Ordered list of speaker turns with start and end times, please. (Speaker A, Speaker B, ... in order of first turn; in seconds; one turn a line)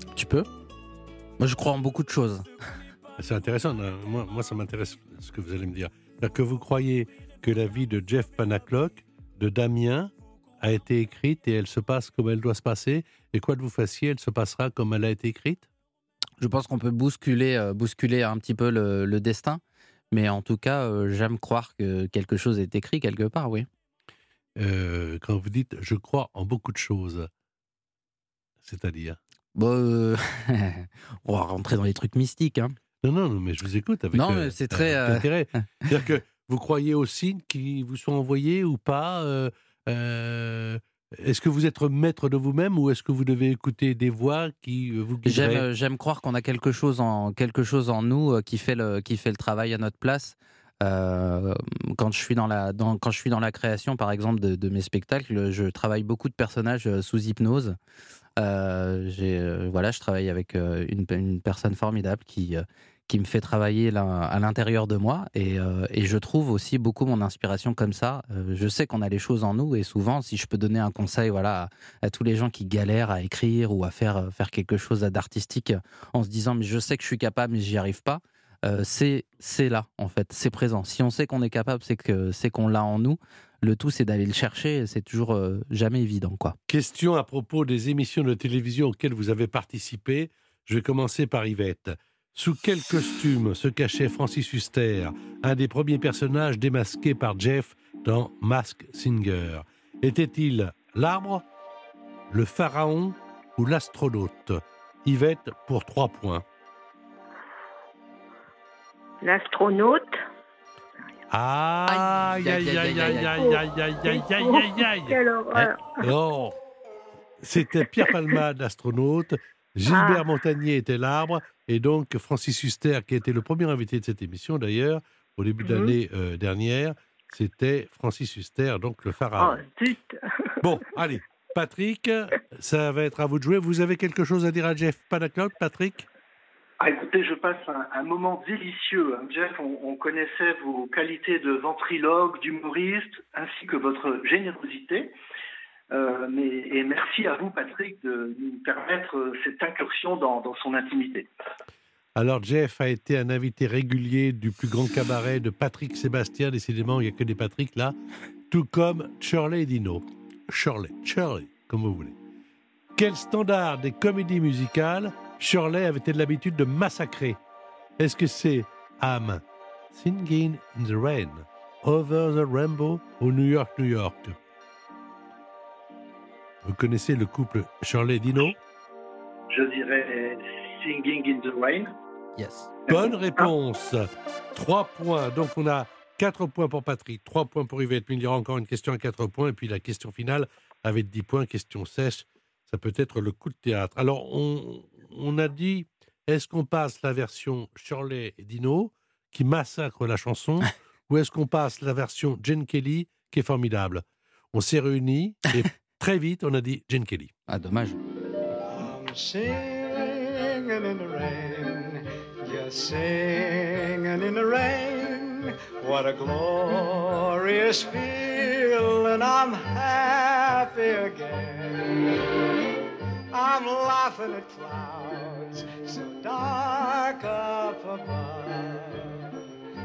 Speaker A: 0.2-0.5
Speaker A: 1.4-2.5
Speaker B: 3.2-15.7
Speaker A: 16.4-23.7
Speaker B: 24.6-27.3
Speaker B: 28.6-29.2
Speaker A: 29.6-32.8
Speaker B: 33.0-45.7
Speaker A: 34.1-35.3
Speaker A: 45.2-57.8
Speaker A: 58.4-86.6
Speaker B: 86.7-101.5
Speaker B: 102.3-106.5
Speaker C: 109.2-110.2
Speaker B: 111.3-116.6
Speaker A: 111.9-113.4
Speaker C: 113.3-116.0
Speaker B: 117.4-129.6
Speaker C: 119.9-120.3
Speaker C: 125.6-126.0
Speaker C: 129.4-130.2
Speaker B: 130.6-136.1
Speaker D: 136.8-145.1
Speaker D: 145.9-151.3
Speaker B: 152.2-158.0
Speaker B: 158.5-162.2
Speaker B: 163.0-167.4
Speaker B: 168.0-174.4
Speaker B: 176.6-178.6
Speaker D: 179.5-181.9
Speaker A: 182.4-182.7
Speaker D: 182.9-183.5
Speaker B: 182.9-207.3
Speaker A: 207.5-208.0
Speaker E: 208.7-222.2
Speaker E: 223.3-229.3